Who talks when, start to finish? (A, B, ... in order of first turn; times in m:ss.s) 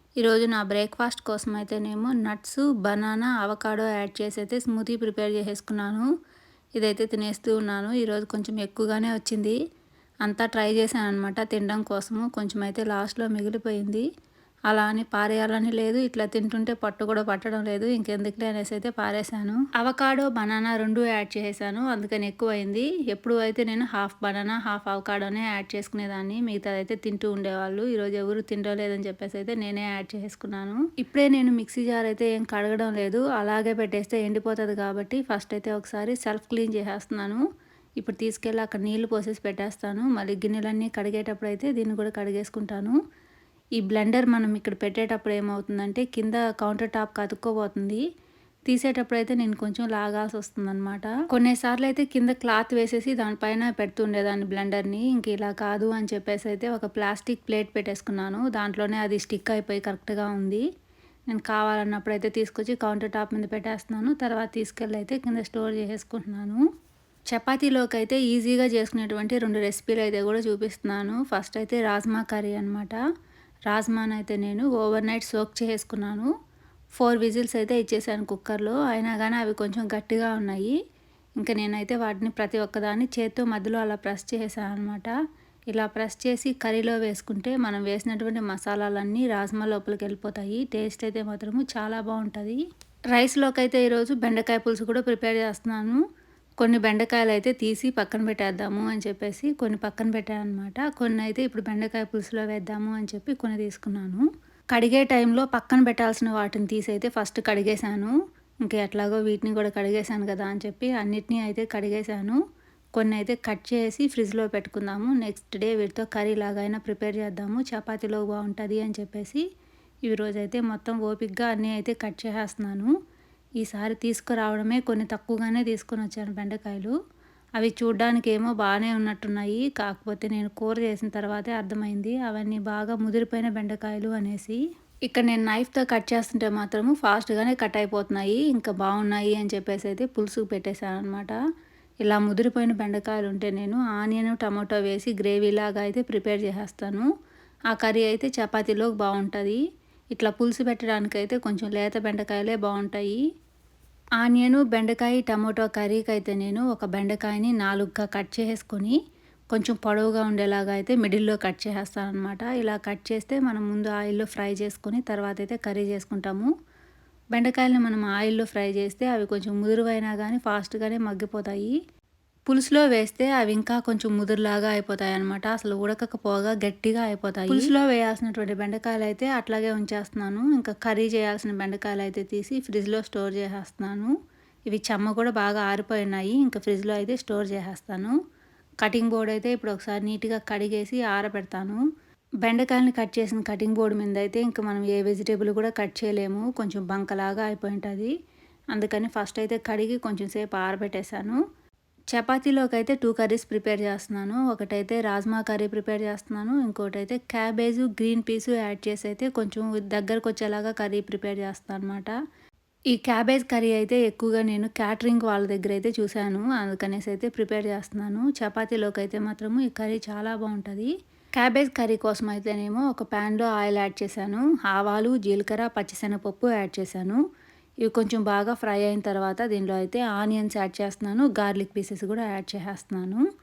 0:00.2-0:06.1 A
0:06.8-0:09.6 A
0:10.2-0:14.1 A
0:14.7-0:37.4 A
0:38.0-0:43.0 A
0:43.8-0:48.0 A
0:48.7-1:00.6 A
1:01.3-1:06.6 A
1:07.3-1:13.0 A
1:13.7-1:16.3 A
1:16.9-1:20.8 A
1:21.4-1:25.1 A
1:25.7-1:36.0 A
1:36.6-1:52.4 A
1:52.9-1:59.4 A
2:00.0-2:02.9 A
2:03.6-2:06.9 A
2:07.6-2:21.4 A
2:22.0-2:27.1 A
2:27.7-2:29.6 A
2:30.1-2:33.2 A
2:34.2-2:39.0 A
2:39.5-2:46.5 A
2:47.3-2:51.8 A
2:52.5-3:04.1 A
3:04.7-3:08.2 A
3:08.8-3:11.8 A
3:12.4-3:18.1 A
3:18.7-3:21.4 A
3:22.1-3:32.1 A
3:32.9-3:47.2 A
3:47.8-3:53.2 A